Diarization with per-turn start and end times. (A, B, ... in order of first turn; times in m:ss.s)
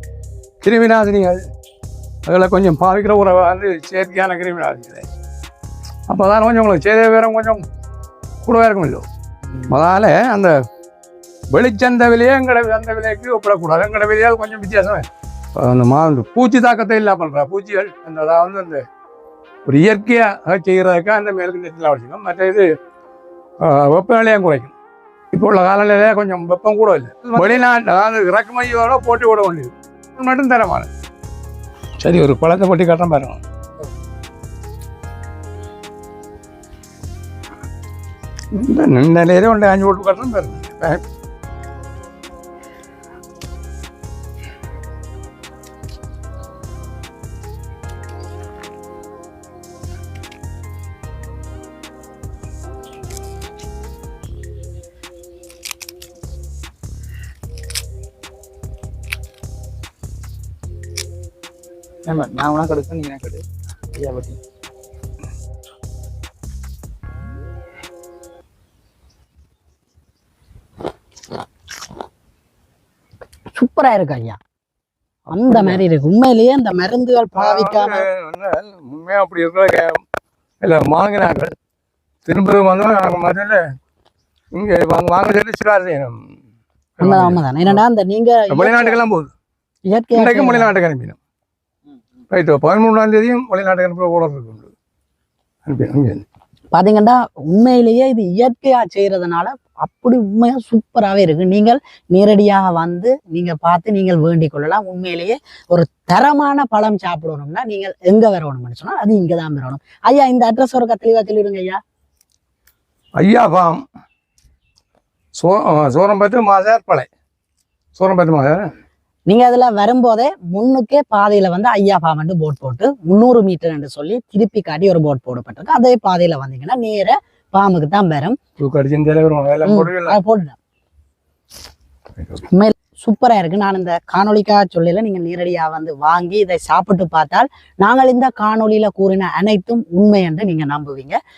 0:00.6-0:01.4 A
0:02.3-0:05.0 A
0:06.1-0:07.6 A
0:08.4-0:09.0 A
0:09.6-0:10.5 A
0:11.5-0:18.8 A
0:19.6-0:22.7 A
0:23.6-0:24.7 A
0:25.3-0:30.9 A
0:32.0-0:33.4 A
0:38.5-0:41.0 A
1:02.0-1:04.4 B
1:13.5-1:14.4 C
1:15.3-1:18.0 C
1:15.4-1:15.8 A
1:17.3-1:20.0 A
1:20.6-1:21.5 A
1:22.2-1:23.6 A
1:24.5-1:26.2 A
1:27.0-1:27.8 A
1:27.0-1:29.0 C
1:28.5-1:29.3 A
1:29.9-1:30.7 C
1:30.1-1:31.2 A
1:32.3-1:34.7 A
1:35.6-1:36.2 A
1:36.7-1:51.8 C
1:53.2-1:53.8 A
1:55.4-1:57.1 A
1:58.0-1:58.7 A
1:59.3-2:08.4 C
2:08.6-2:10.2 A
2:09.6-2:10.6 C
2:12.4-2:21.2 C